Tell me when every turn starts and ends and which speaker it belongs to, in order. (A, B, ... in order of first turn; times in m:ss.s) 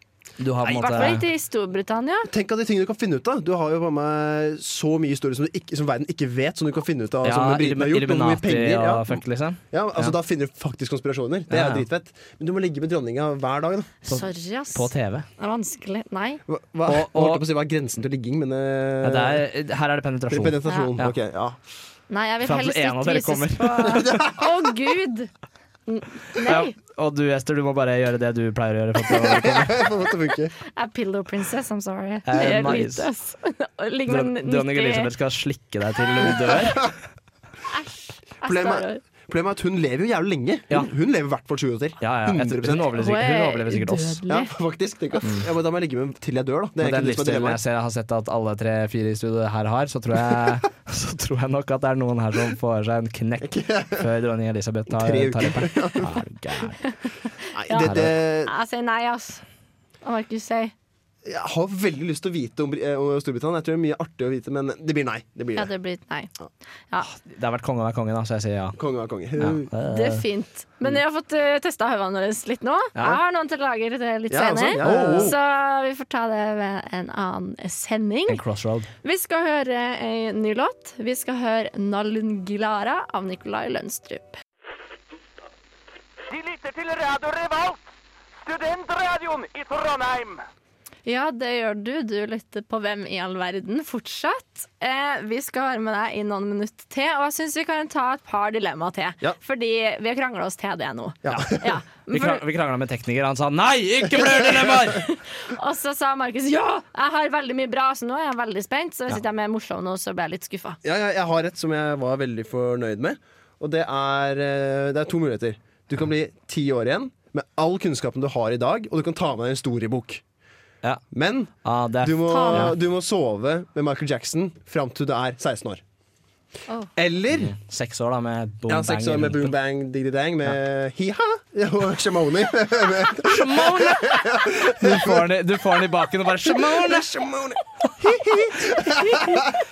0:00.4-0:01.2 A
0:00.6-0:01.2 B
0:00.8-0:02.3 C
0:02.3-0:09.2 B
0:07.2-0:10.1 A
0:09.7-0:14.0 B
0:11.5-0:11.8 A
0:14.0-0:16.4 C
0:14.1-0:15.2 A
0:16.5-0:19.4 B
0:16.9-0:17.4 A
0:19.0-0:21.1 A
0:20.3-0:21.6 B
0:20.6-0:20.9 C
0:22.1-0:25.3 C
0:22.4-0:24.0 A
0:23.9-0:24.6 B
0:25.9-0:26.7 C
0:26.4-0:29.9 A
0:29.3-0:30.5 B
0:30.7-0:35.1 C
0:32.2-0:33.1 A
0:34.1-0:36.9 A
0:36.2-0:36.5 C
0:37.7-0:39.0 C
0:38.4-0:42.9 B
0:42.0-0:44.2 A
0:42.9-0:44.5 C
0:44.3-0:47.6 B
0:46.8-0:56.9 A
0:53.4-0:54.1 B
0:54.9-0:56.2 B
0:57.5-0:58.5 B
0:57.6-0:59.4 C
0:57.8-0:58.1 A
1:00.0-1:00.7 C
1:01.2-1:05.7 B
1:05.5-1:06.3 C
1:07.1-1:08.8 A
1:08.8-1:09.7 B
1:09.4-1:10.2 A
1:09.8-1:18.4 C
1:14.3-1:15.3 B
1:14.8-1:15.3 A
1:18.3-1:18.9 A
1:19.0-1:24.4 C
1:26.3-1:27.8 D
1:28.4-1:30.4 D
1:31.0-1:42.4 C
1:41.2-1:41.6 B
1:42.1-1:45.1 A
1:44.7-1:50.8 C
1:50.8-2:00.2 B
2:01.1-2:05.8 B
2:01.6-2:02.7 A
2:02.3-2:02.7 C
2:07.0-2:07.5 B
2:07.3-2:09.5 A
2:08.7-2:15.2 B
2:13.2-2:17.1 A
2:16.4-2:19.6 B
2:18.0-2:19.4 A